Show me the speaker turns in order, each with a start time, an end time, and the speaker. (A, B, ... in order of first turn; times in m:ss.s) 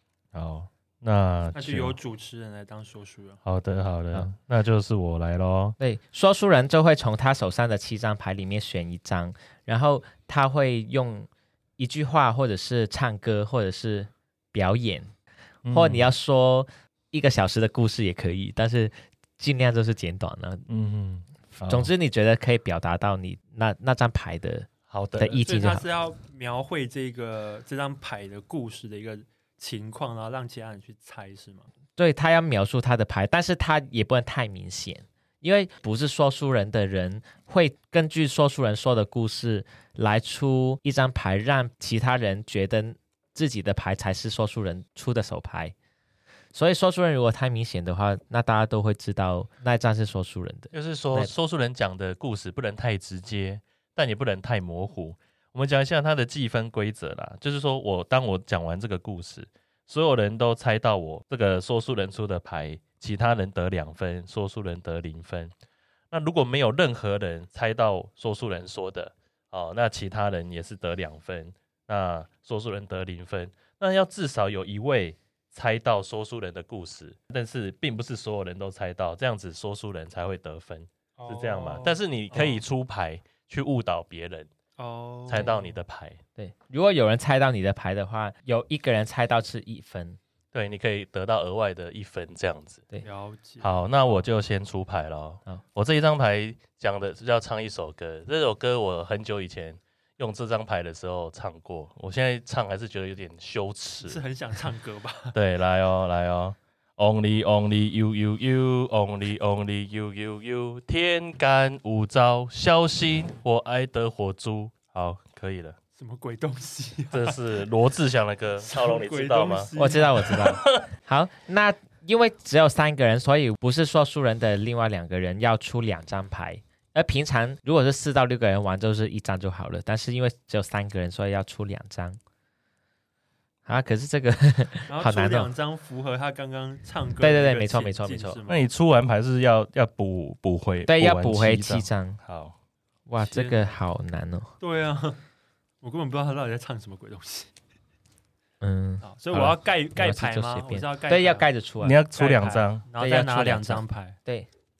0:00.3-0:02.0 A
0:01.5-0:03.4 B
0:03.4-0:05.8 A
0:05.8-0:15.1 C
0:15.6-0:16.0 A
0:15.7-0:20.7 C
0:20.7-0:21.9 A
0:21.5-0:25.8 C
0:24.9-0:25.4 A
0:25.4-0:31.7 B
0:32.0-0:45.7 C
0:46.5-0:51.3 C
0:50.7-1:05.5 A
1:06.1-1:24.5 A
1:21.2-1:22.6 B
1:24.8-1:25.8 B
1:25.3-1:26.2 A
1:26.4-1:30.2 C
1:30.5-1:32.8 A
1:33.0-1:34.2 B
1:33.6-1:44.2 A
1:44.0-1:45.4 B
1:45.3-1:55.8 A
1:56.0-1:57.4 B
1:57.1-1:59.7 A
1:58.6-2:00.4 B
1:59.8-2:12.2 C
2:00.2-2:00.8 A
2:13.6-2:15.5 C
2:14.9-2:18.6 B
2:17.2-2:18.4 C
2:18.5-2:22.6 A
2:20.9-2:22.2 C
2:23.1-2:24.5 C
2:23.2-2:23.8 B
2:24.6-2:25.2 B
2:25.8-2:27.5 B
2:28.6-2:32.0 C
2:29.0-2:31.5 B
2:31.8-2:32.8 A
2:32.1-2:34.2 B
2:33.0-2:34.5 C